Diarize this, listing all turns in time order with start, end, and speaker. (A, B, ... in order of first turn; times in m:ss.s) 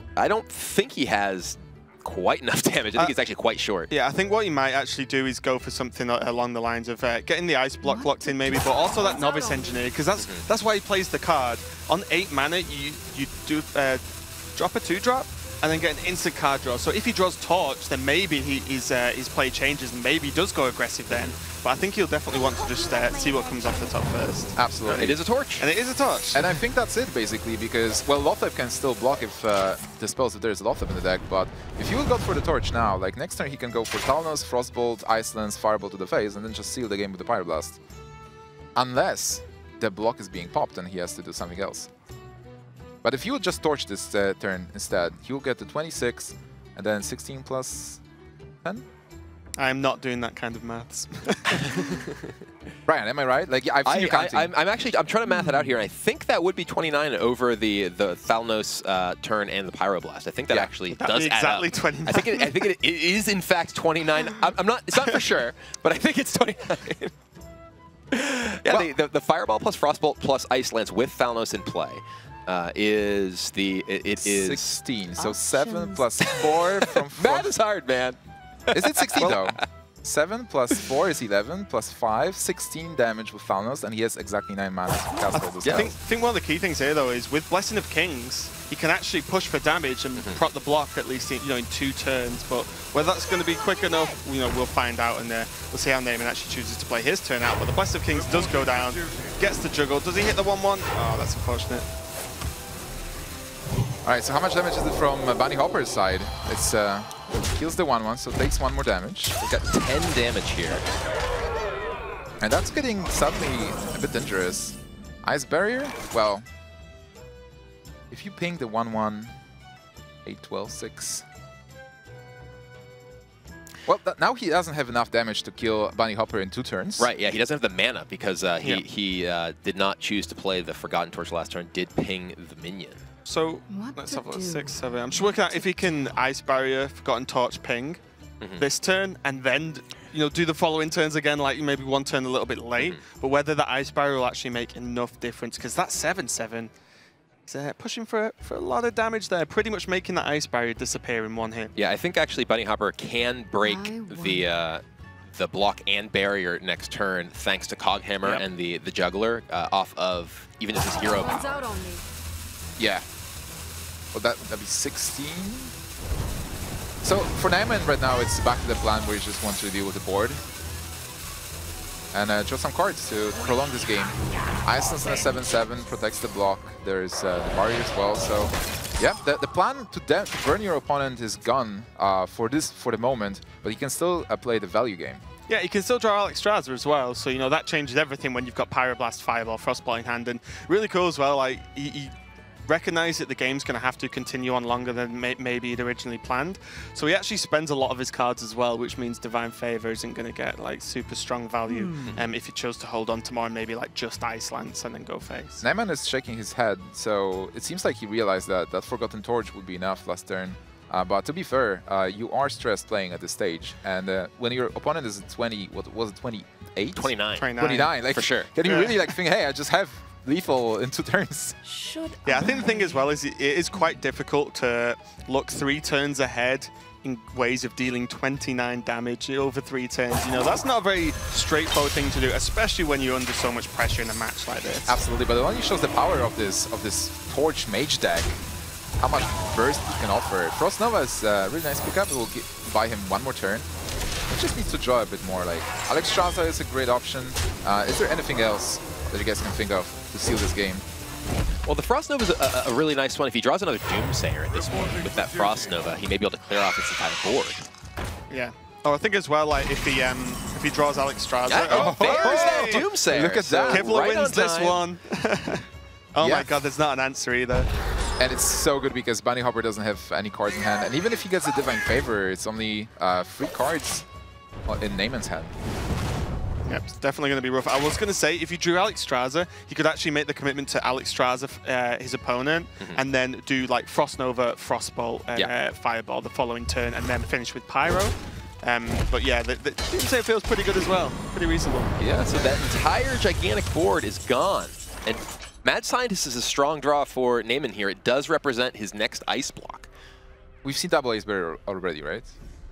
0:00.2-0:03.9 A
0:03.9-0:14.0 B
0:07.8-0:09.9 C
0:10.2-0:10.4 A
0:14.6-0:26.5 B
0:23.2-0:24.4 C
0:24.6-0:25.2 D
0:24.9-0:25.7 A
0:26.3-0:37.8 D
0:38.8-0:41.9 D
0:43.0-0:48.0 D
0:49.6-0:52.0 B
0:52.9-0:54.5 D
0:53.8-1:07.1 A
0:55.4-0:55.7 C
1:00.9-1:02.5 B
1:08.1-1:14.8 A
1:14.2-1:17.5 D
1:15.2-1:16.1 C
1:17.0-1:19.6 A
1:18.7-1:25.9 D
1:25.3-1:41.9 B
1:25.6-1:25.9 A
1:44.0-1:49.4 D
1:49.4-1:50.8 A
1:52.4-1:56.4 D
1:58.1-1:59.3 D
2:00.2-2:01.2 D
2:03.9-2:07.1 D
2:07.0-2:13.0 A
2:13.3-2:18.0 B
2:13.7-2:14.8 C
2:18.6-2:26.7 B
2:27.5-2:31.7 B
2:31.8-2:41.7 A
2:33.6-2:34.5 C
2:40.9-2:42.0 C
2:42.8-2:43.0 D
2:44.1-2:45.7 D
2:47.0-2:50.4 D
2:52.1-3:05.2 D
3:05.5-3:12.1 B
3:12.7-3:25.6 B
3:21.7-3:22.1 C
3:25.6-3:41.6 D
3:37.0-3:38.5 A
3:37.4-3:37.9 B
3:38.6-3:39.0 B
3:41.6-3:43.2 C
3:42.2-3:54.9 B
3:54.9-3:58.4 D
3:59.0-4:03.7 D
4:04.3-4:10.8 D
4:11.7-4:17.6 A
4:18.3-4:22.9 B
4:21.5-4:24.8 A
4:21.7-4:23.9 D
4:23.7-4:27.7 B
4:26.2-4:26.5 D
4:28.2-4:34.1 D
4:34.7-4:35.5 D
4:36.6-4:52.0 B
4:52.0-4:59.9 A
5:00.6-5:02.3 D